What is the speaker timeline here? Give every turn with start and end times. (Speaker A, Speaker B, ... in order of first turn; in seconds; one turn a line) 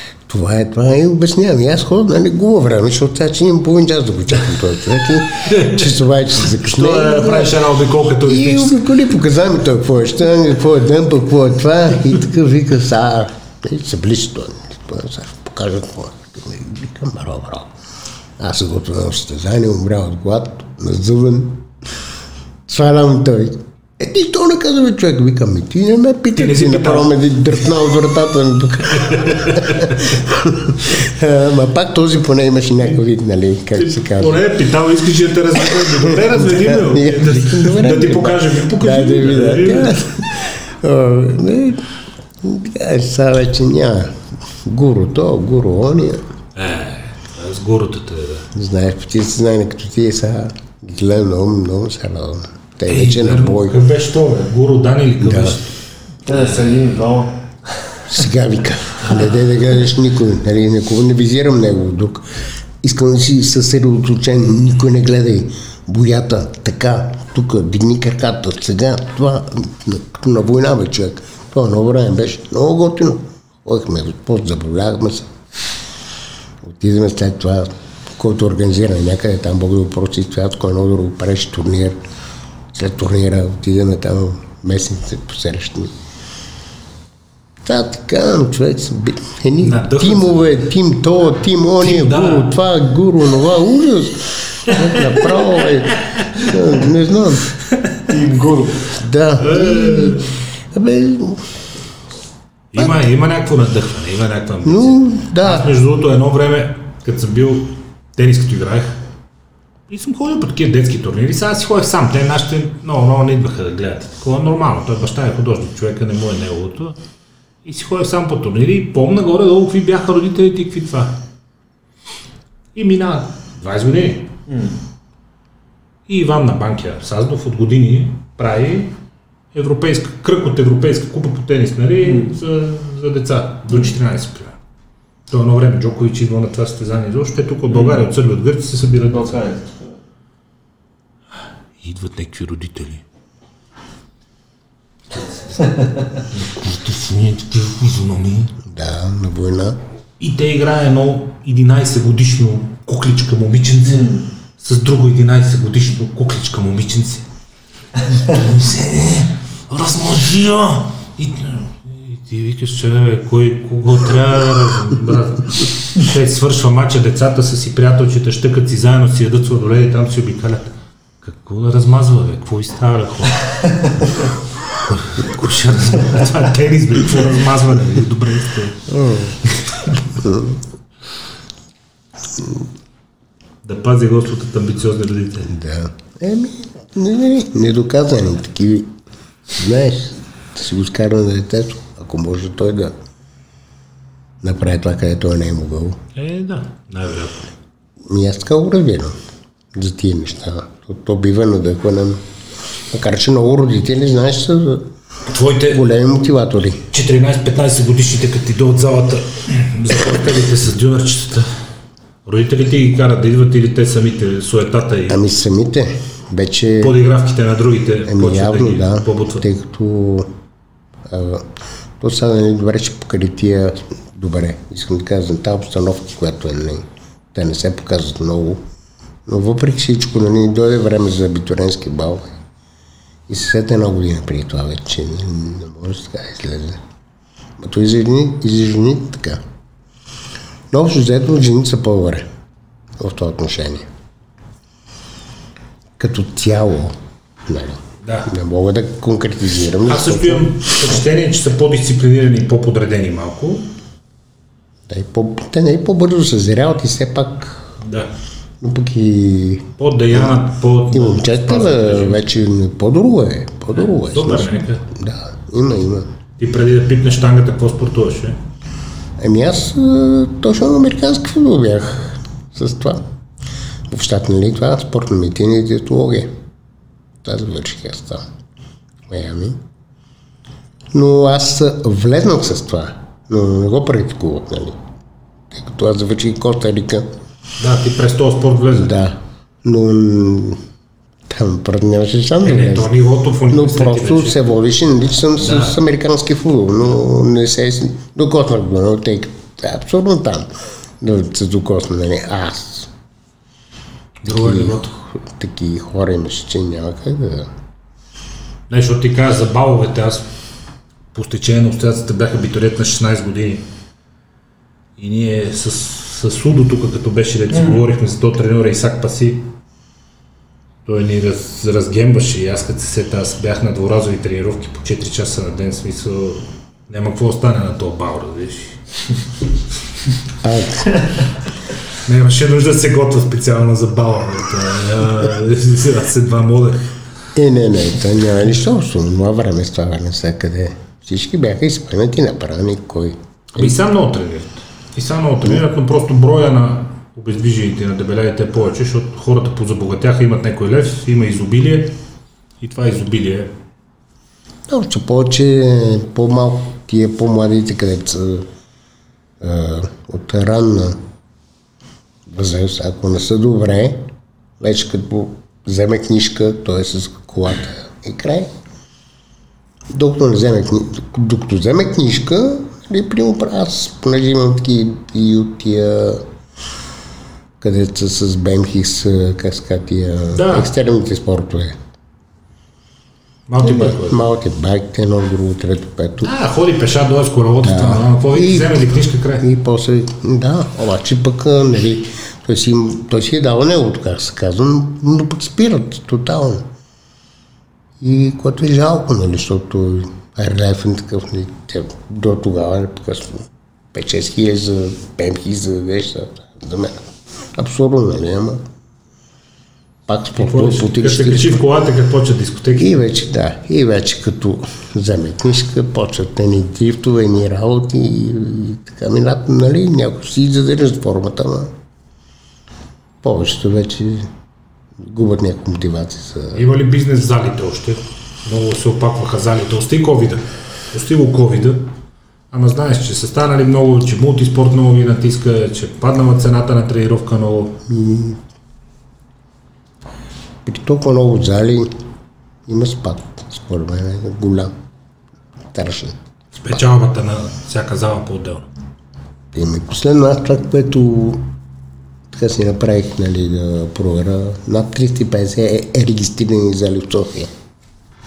Speaker A: 0.3-7.7
Speaker B: 5.4-8.8
Speaker A: 8.2-17.7
Speaker A: 18.4-21.7
Speaker A: 22.7-34.5
Speaker B: 26.4-27.2
Speaker B: 28.9-30.1
Speaker B: 33.7-40.1
Speaker A: 35.8-41.9
Speaker A: 42.4-46.2
Speaker B: 46.6-48.5
Speaker A: 48.5-53.8
Speaker B: 52.9-55.7
Speaker A: 55.2-55.6
Speaker C: 56.3-57.4
Speaker A: 58.1-75.3
Speaker A: 76.6-82.0
Speaker A: 82.7-85.9
Speaker A: 87.7-97.5
Speaker B: 89.6-90.6
Speaker B: 91.8-92.5
Speaker B: 95.9-96.4
Speaker B: 97.7-98.0
Speaker C: 98.1-99.0
Speaker A: 99.0-101.4
Speaker B: 99.4-100.3
Speaker B: 102.7-109.0
Speaker A: 102.8-103.0
Speaker A: 104.7-105.7
Speaker B: 109.9-117.0
Speaker B: 117.7-121.2
Speaker B: 122.7-124.3
Speaker C: 124.5-124.8
Speaker B: 126.1-128.9
Speaker B: 129.5-134.6
Speaker C: 132.0-132.3
Speaker B: 135.3-139.4
Speaker C: 137.7-138.0
Speaker C: 139.1-139.9
Speaker B: 141.8-143.0
Speaker B: 145.1-145.6
Speaker C: 145.6-146.2
Speaker B: 146.3-148.6
Speaker A: 148.7-149.8
Speaker B: 150.2-157.3
Speaker C: 153.9-154.3
Speaker B: 158.0-173.4
Speaker B: 174.7-178.9
Speaker A: 178.9-179.4
Speaker B: 179.4-180.1
Speaker A: 180.1-180.6
Speaker A: 182.3-182.6
Speaker B: 183.6-185.5
Speaker A: 185.5-188.9
Speaker A: 189.6-192.9
Speaker A: 194.4-196.0
Speaker B: 196.2-197.5
Speaker A: 198.1-199.2
Speaker A: 199.7-202.2
Speaker A: 202.9-204.9
Speaker B: 205.3-205.8
Speaker A: 205.7-206.8
Speaker B: 206.9-211.6
Speaker B: 212.3-215.2
Speaker A: 215.1-216.9
Speaker B: 216.8-219.4
Speaker A: 218.1-220.3
Speaker A: 221.1-228.6
Speaker A: 229.3-232.3
Speaker A: 233.3-236.8
Speaker A: 237.6-239.4
Speaker A: 240.7-242.3
Speaker A: 243.0-243.9
Speaker A: 246.0-250.5
Speaker B: 248.0-248.3
Speaker B: 249.8-253.7
Speaker A: 254.9-257.7
Speaker B: 257.8-258.1
Speaker A: 258.6-266.1
Speaker B: 259.8-262.2
Speaker B: 263.9-264.9
Speaker B: 266.4-268.4
Speaker A: 269.2-273.1
Speaker A: 273.9-276.4
Speaker A: 277.2-278.3
Speaker A: 279.1-279.6
Speaker A: 280.9-284.8
Speaker A: 285.5-287.1
Speaker B: 287.6-288.9
Speaker A: 288.7-290.6
Speaker A: 291.3-292.9
Speaker B: 292.4-294.4
Speaker A: 293.5-302.9
Speaker B: 295.4-295.8
Speaker B: 304.2-304.9
Speaker A: 304.3-307.5
Speaker B: 308.7-310.3
Speaker B: 311.1-313.6
Speaker B: 315.0-319.5
Speaker B: 320.9-328.8
Speaker A: 330.4-331.0
Speaker B: 332.1-336.9
Speaker A: 337.4-343.8
Speaker B: 343.6-351.9
Speaker B: 352.6-353.5
Speaker A: 354.7-358.5
Speaker A: 359.4-361.0
Speaker A: 362.3-364.1
Speaker A: 364.6-368.5
Speaker A: 369.9-376.2
Speaker A: 377.6-381.8
Speaker B: 380.3-380.7
Speaker B: 383.5-384.2
Speaker A: 383.6-386.3
Speaker B: 386.2-389.4
Speaker A: 387.6-396.7
Speaker A: 398.0-408.6
Speaker A: 410.1-411.7
Speaker B: 410.4-413.0
Speaker A: 412.8-421.7
Speaker A: 423.2-424.3
Speaker A: 425.0-426.6
Speaker B: 426.5-431.9
Speaker B: 432.5-437.8
Speaker A: 437.9-438.4
Speaker A: 440.6-441.9
Speaker A: 442.6-444.7
Speaker A: 445.7-446.2
Speaker B: 446.5-448.7
Speaker A: 449.5-451.4
Speaker A: 452.3-457.5